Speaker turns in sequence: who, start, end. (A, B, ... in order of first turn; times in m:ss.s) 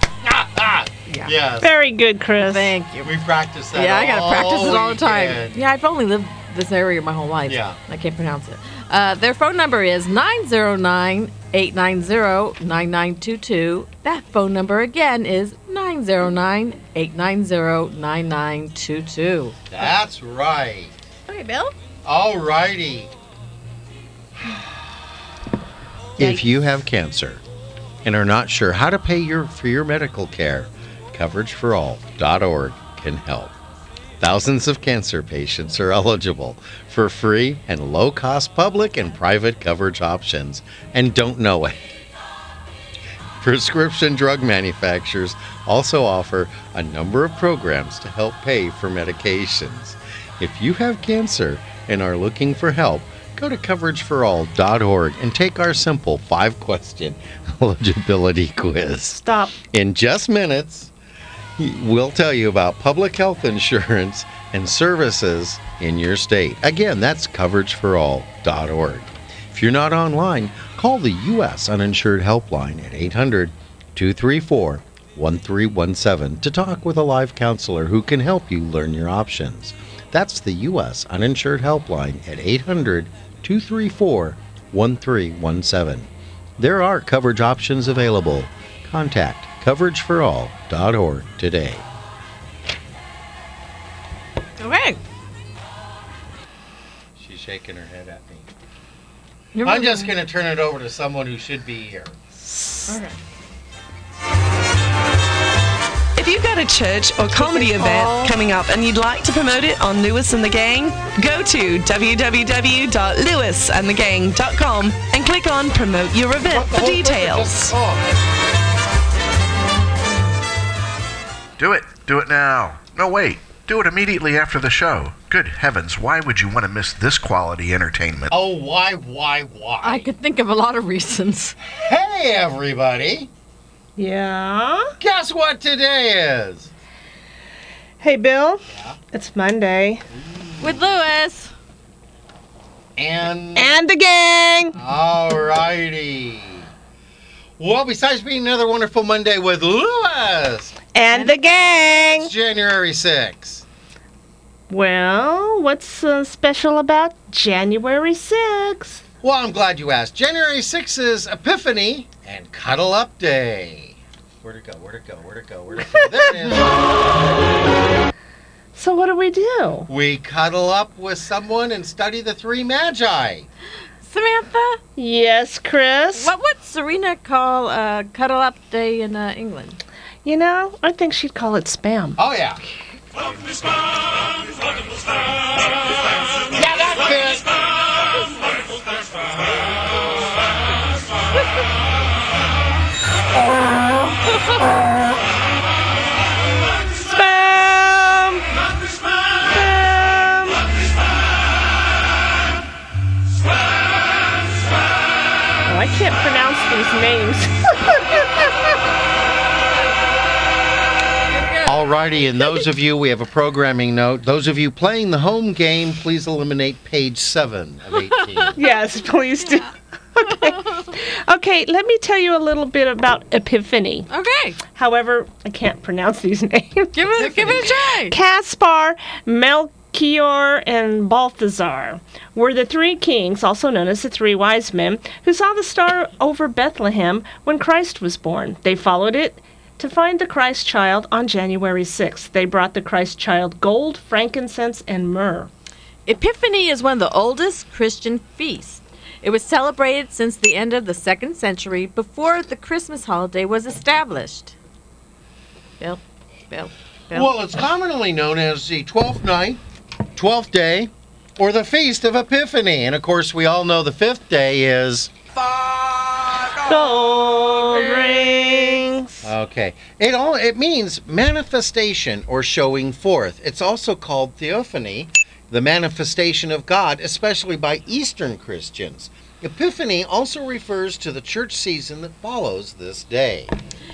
0:00.2-0:01.7 A
0:01.1-0:01.3 B
0:01.6-0:02.7 C
0:02.4-0:03.2 B
0:03.0-0:05.6 A
0:03.7-0:19.6 B
0:07.5-0:07.7 A
0:19.7-0:20.9 A
0:21.3-0:21.7 B
0:22.0-0:23.1 A
0:26.2-0:27.4 A
0:28.0-0:33.5 A
0:34.2-0:41.8 A
0:43.4-0:59.2 A
0:59.1-0:59.6 C
0:59.7-1:00.9 A
1:01.6-1:26.1 A
1:26.6-1:31.8 A
1:34.6-1:35.0 B
1:37.2-1:38.5 A
1:39.6-1:40.2 B
1:39.6-1:42.1 A
1:42.4-1:43.0 C
1:42.9-1:43.2 B
1:46.2-1:57.8 D
1:47.5-1:48.1 C
1:56.5-1:58.0 A
2:01.6-2:08.4 E
2:08.3-2:10.1 A
2:09.8-2:11.6 B
2:11.8-2:13.3 A
2:14.0-2:15.0 C
2:15.0-2:16.7 A
2:18.0-2:20.0 C
2:20.2-2:20.8 A
2:20.6-2:21.5 B
2:23.0-2:23.7 A
2:23.6-2:24.8 C
2:24.8-2:26.7 A
2:27.6-2:30.7 A
2:30.9-2:32.3 C
2:31.1-2:31.4 B
2:31.8-2:33.6 A
2:34.7-2:39.0 C
2:39.2-2:46.7 A
2:48.8-2:49.9 C
2:49.9-2:53.5 A
2:54.0-2:54.8 B
2:55.0-2:56.3 C
2:56.2-2:59.8 B
3:00.2-3:02.2 C
3:02.2-3:02.6 A
3:06.6-3:07.5 A
3:17.0-3:18.4 C
3:19.4-3:20.6 C
3:25.7-3:28.5 C
3:31.3-3:31.7 B
3:31.7-3:38.5 A
3:38.6-3:44.1 C
3:44.1-3:44.6 B
3:44.7-4:05.5 C
3:46.9-3:48.2 B
4:06.1-4:14.6 B
4:15.8-4:17.3 B
4:17.1-4:19.6 A
4:20.2-4:25.1 A
4:26.6-4:29.3 C
4:29.2-4:43.5 A